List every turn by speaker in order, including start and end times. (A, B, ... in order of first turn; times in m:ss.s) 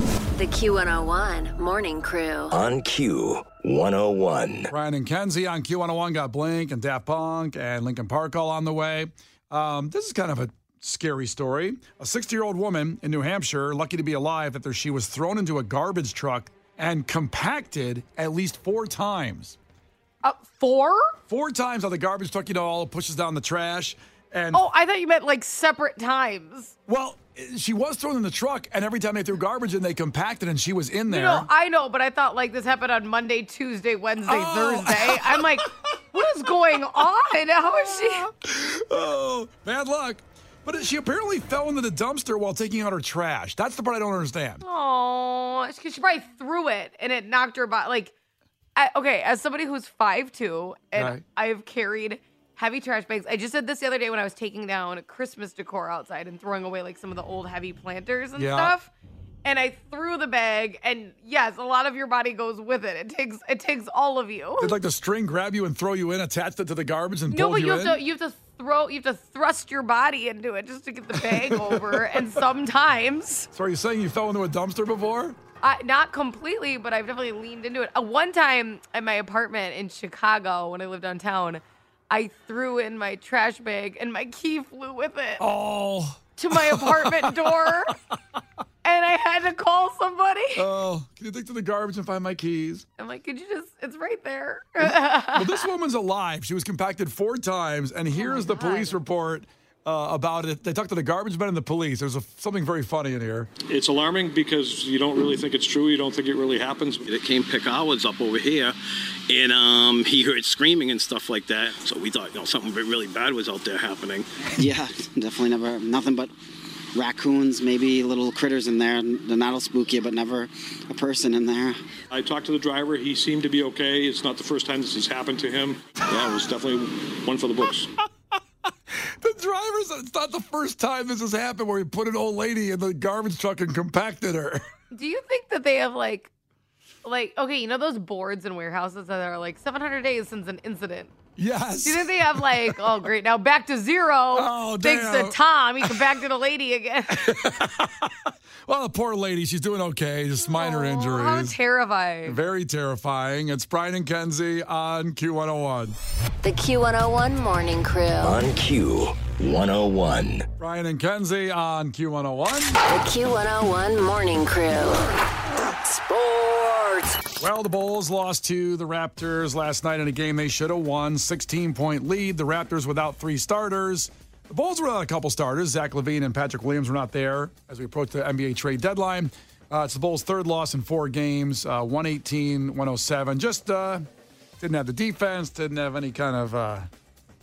0:00.4-0:02.5 A
0:02.5-0:04.7 B
0:04.7-0:19.6 C
0:20.2-0:21.2 D
0:21.3-0:24.6 C
0:24.5-0:26.7 D
0:26.9-0:31.5 C
0:31.1-0:38.3 D
0:34.2-0:35.4 C
0:38.4-0:44.6 C
0:44.6-0:48.1 D
0:48.8-0:58.9 D
0:51.0-0:51.2 C
0:58.4-0:58.8 C
0:59.4-1:04.8 D
1:04.6-1:08.0 C
1:07.3-1:13.5 D
1:11.1-1:12.4 C
1:13.5-1:15.4 C
1:15.6-1:25.4 D
1:25.4-1:27.9 C
1:26.4-1:27.9 D
1:28.8-1:30.7 D
1:30.6-1:32.9 C
1:33.0-1:35.7 D
1:34.8-1:43.5 C
1:38.1-1:39.0 D
1:43.7-1:47.1 E
1:47.1-1:48.8 F
1:49.3-1:54.2 F
1:54.6-1:56.3 G
1:57.0-2:01.8 G
2:02.1-2:07.9 E
2:09.0-2:14.6 C
2:14.9-2:16.3 D
2:17.0-2:21.1 D
2:21.4-2:22.9 C
2:21.8-2:27.4 D
2:24.3-2:26.1 C
2:27.1-2:31.6 C
2:30.5-2:32.4 D
2:32.2-2:36.0 C
2:36.4-2:38.3 A
2:38.2-2:40.5 B
2:40.6-2:42.8 C
2:42.9-2:45.0 A
2:46.1-2:46.9 A
2:47.4-3:04.0 C
3:04.6-3:06.9 C